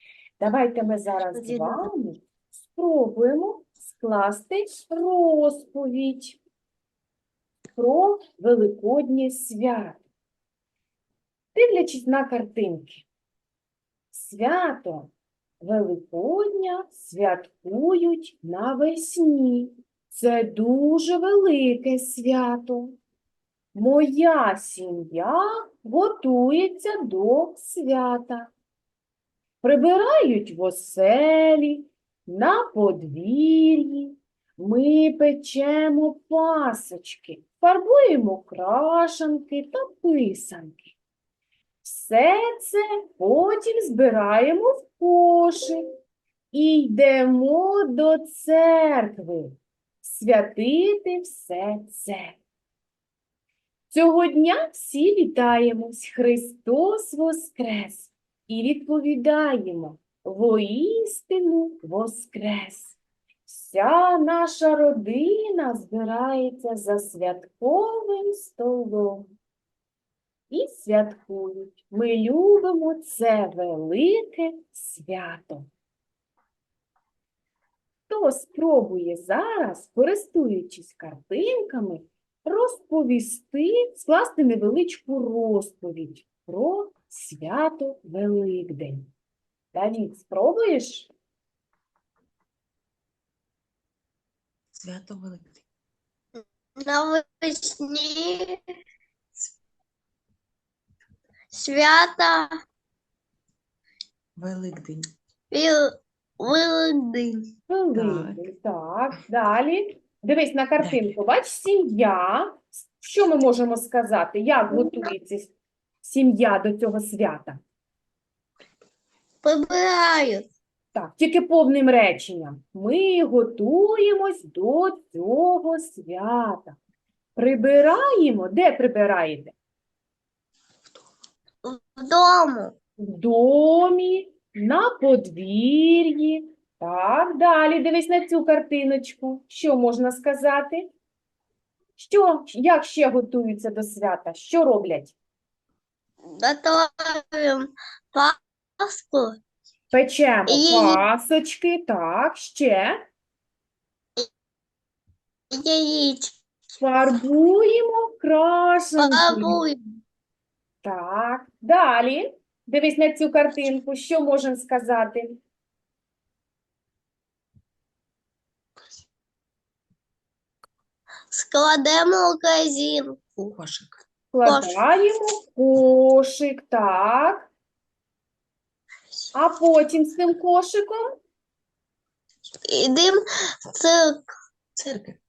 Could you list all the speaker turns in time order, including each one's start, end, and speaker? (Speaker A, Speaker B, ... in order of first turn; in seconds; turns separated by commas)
Speaker A: 0.4-6.4, Speaker B: 1.3-1.9, Speaker A: 7.8-10.0, Speaker A: 11.6-13.1, Speaker A: 14.1-23.0, Speaker A: 23.7-28.5, Speaker A: 29.6-41.0, Speaker A: 41.8-45.9, Speaker A: 46.5-52.4, Speaker A: 53.9-69.3, Speaker A: 70.5-75.7, Speaker A: 78.1-89.1, Speaker A: 89.7-91.1, Speaker C: 94.8-95.6, Speaker B: 96.3-98.6, Speaker B: 101.5-102.5, Speaker C: 104.4-105.0, Speaker B: 105.5-107.5, Speaker A: 107.7-117.6, Speaker C: 107.9-108.5, Speaker C: 110.8-111.1, Speaker B: 119.4-120.5, Speaker A: 120.9-126.8, Speaker A: 127.4-129.6, Speaker B: 131.6-132.8, Speaker A: 133.0-140.9, Speaker A: 142.0-145.2, Speaker B: 146.2-149.4, Speaker A: 149.9-153.1, Speaker B: 150.5-151.0, Speaker B: 155.5-156.3, Speaker A: 156.8-159.6, Speaker B: 159.0-159.9, Speaker A: 160.8-165.4, Speaker B: 171.3-173.5, Speaker C: 173.5-174.0, Speaker A: 174.3-177.5, Speaker B: 174.4-174.8, Speaker A: 179.3-181.0, Speaker B: 182.7-184.3, Speaker C: 184.8-185.2